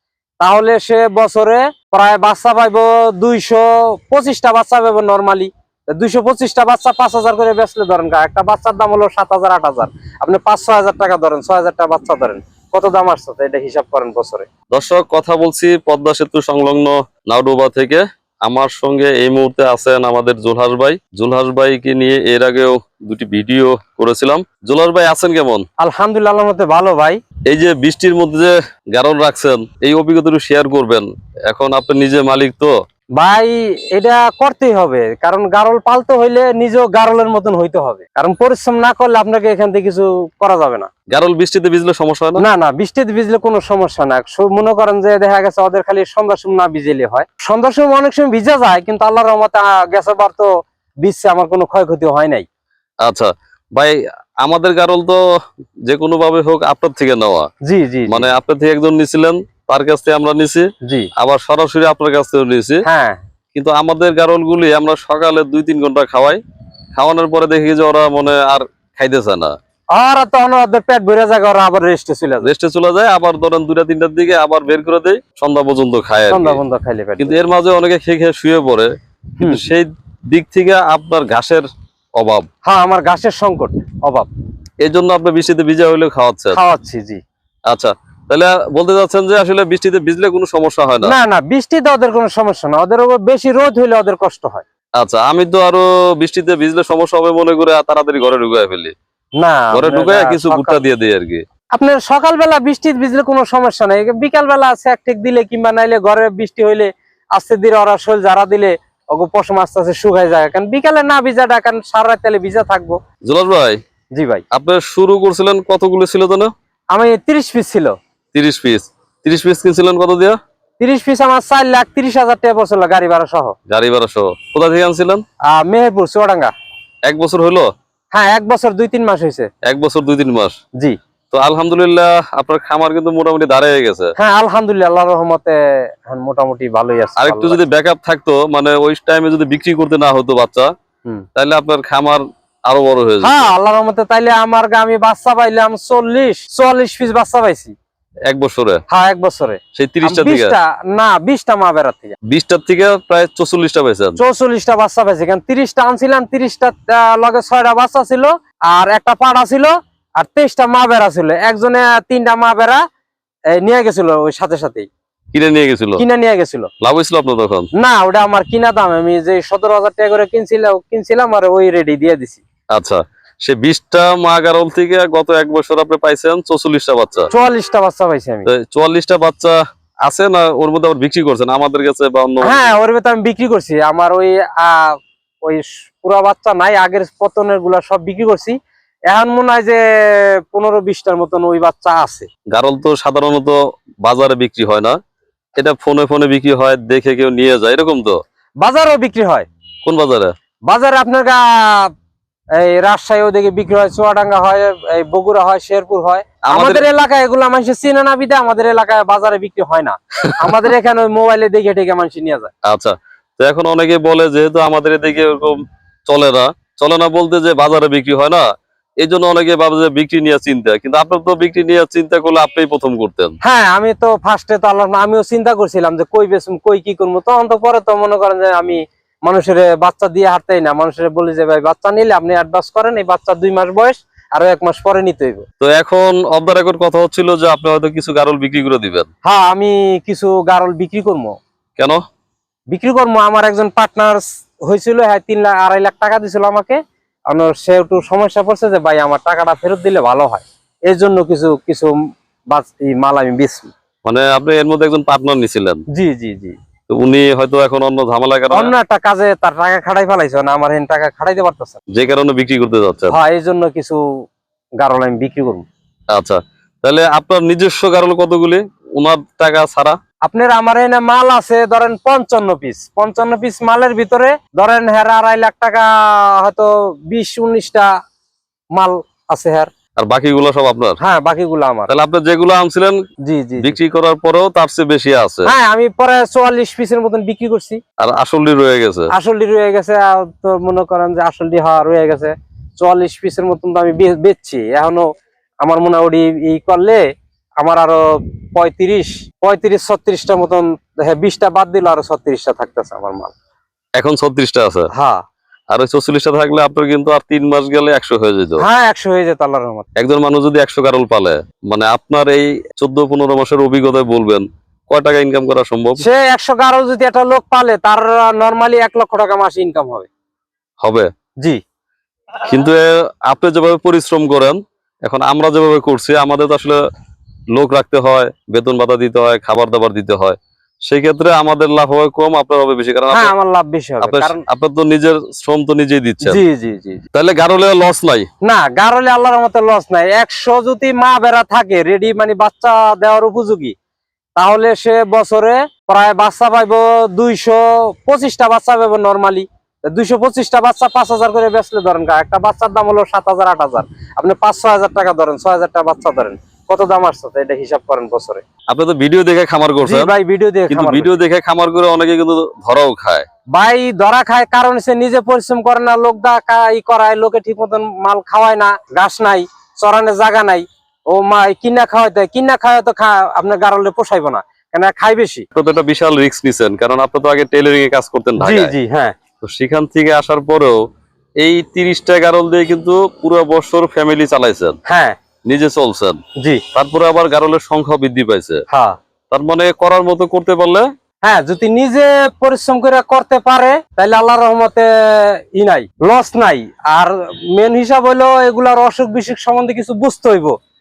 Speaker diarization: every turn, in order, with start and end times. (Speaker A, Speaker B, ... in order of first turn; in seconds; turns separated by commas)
Speaker A: 0.4-14.5, Speaker B: 14.7-25.6, Speaker A: 25.8-27.2, Speaker B: 27.5-32.7, Speaker A: 33.2-40.9, Speaker B: 41.1-42.4, Speaker A: 42.4-50.5, Speaker A: 51.0-52.5, Speaker B: 53.0-55.2, Speaker B: 55.9-57.5, Speaker A: 57.6-58.3, Speaker B: 58.1-62.8, Speaker A: 60.9-61.1, Speaker A: 62.8-63.2, Speaker B: 63.5-66.4, Speaker B: 67.0-69.5, Speaker A: 69.9-72.5, Speaker B: 72.4-76.6, Speaker A: 76.3-77.4, Speaker B: 77.2-82.5, Speaker A: 82.7-84.3, Speaker B: 84.8-86.6, Speaker A: 86.5-87.2, Speaker B: 87.7-91.2, Speaker A: 91.0-94.7, Speaker B: 95.0-98.9, Speaker A: 99.4-100.8, Speaker B: 99.7-101.4, Speaker A: 101.7-113.0, Speaker B: 113.3-113.8, Speaker A: 114.2-114.4, Speaker B: 114.5-116.5, Speaker A: 116.9-117.9, Speaker B: 118.3-120.4, Speaker A: 120.8-123.6, Speaker B: 123.7-125.2, Speaker A: 125.5-126.5, Speaker B: 127.1-127.7, Speaker A: 128.1-129.5, Speaker B: 129.7-130.6, Speaker B: 131.3-134.2, Speaker A: 134.2-137.6, Speaker B: 137.2-140.7, Speaker B: 141.4-143.5, Speaker A: 143.2-147.8, Speaker B: 148.3-148.8, Speaker A: 148.9-152.2, Speaker B: 149.8-150.6, Speaker B: 152.3-154.2, Speaker A: 154.2-162.8, Speaker A: 163.5-164.9, Speaker B: 165.3-166.0, Speaker A: 166.0-166.7, Speaker B: 166.8-167.7, Speaker A: 167.8-172.4, Speaker B: 172.7-177.3, Speaker A: 177.3-178.5, Speaker B: 178.5-182.7, Speaker A: 182.4-188.6, Speaker A: 189.1-192.3, Speaker B: 192.5-195.0, Speaker B: 195.6-198.2, Speaker A: 198.6-199.5, Speaker B: 199.8-200.3, Speaker A: 200.7-201.9, Speaker A: 202.6-212.5, Speaker B: 206.4-206.8, Speaker B: 212.7-218.5, Speaker B: 219.0-223.4, Speaker A: 223.4-235.5, Speaker B: 235.6-239.1, Speaker A: 239.2-241.4, Speaker A: 242.7-252.0, Speaker A: 252.5-253.7, Speaker B: 254.0-255.8, Speaker A: 255.9-256.6, Speaker B: 256.9-258.7, Speaker A: 258.5-261.8, Speaker B: 261.9-263.2, Speaker A: 263.1-264.3, Speaker A: 264.8-265.7, Speaker B: 266.1-270.0, Speaker A: 270.2-277.9, Speaker A: 278.8-279.7, Speaker B: 280.0-281.0, Speaker A: 281.0-281.9, Speaker B: 281.9-283.0, Speaker A: 283.3-283.8, Speaker B: 283.6-285.5, Speaker A: 285.5-287.8, Speaker B: 288.0-289.1, Speaker A: 289.1-295.1, Speaker A: 295.6-297.0, Speaker A: 297.6-303.4, Speaker B: 304.0-304.9, Speaker A: 304.9-305.2, Speaker B: 305.7-308.6, Speaker A: 308.6-309.9, Speaker B: 310.0-316.1, Speaker A: 316.0-320.1, Speaker B: 320.8-321.1, Speaker B: 322.4-326.8, Speaker B: 327.6-333.3, Speaker A: 333.1-334.4, Speaker B: 334.0-336.4, Speaker A: 336.2-337.0, Speaker B: 337.1-338.3, Speaker A: 338.4-343.8, Speaker A: 344.4-358.4, Speaker B: 358.7-360.1, Speaker A: 359.8-361.2, Speaker B: 360.7-363.2, Speaker A: 363.5-375.5, Speaker B: 375.5-378.7, Speaker A: 378.4-379.1, Speaker B: 379.4-380.8, Speaker B: 381.4-384.8, Speaker A: 384.9-385.2, Speaker B: 385.5-386.2, Speaker B: 386.7-388.6, Speaker A: 388.7-389.0, Speaker B: 389.3-390.9, Speaker A: 391.2-400.6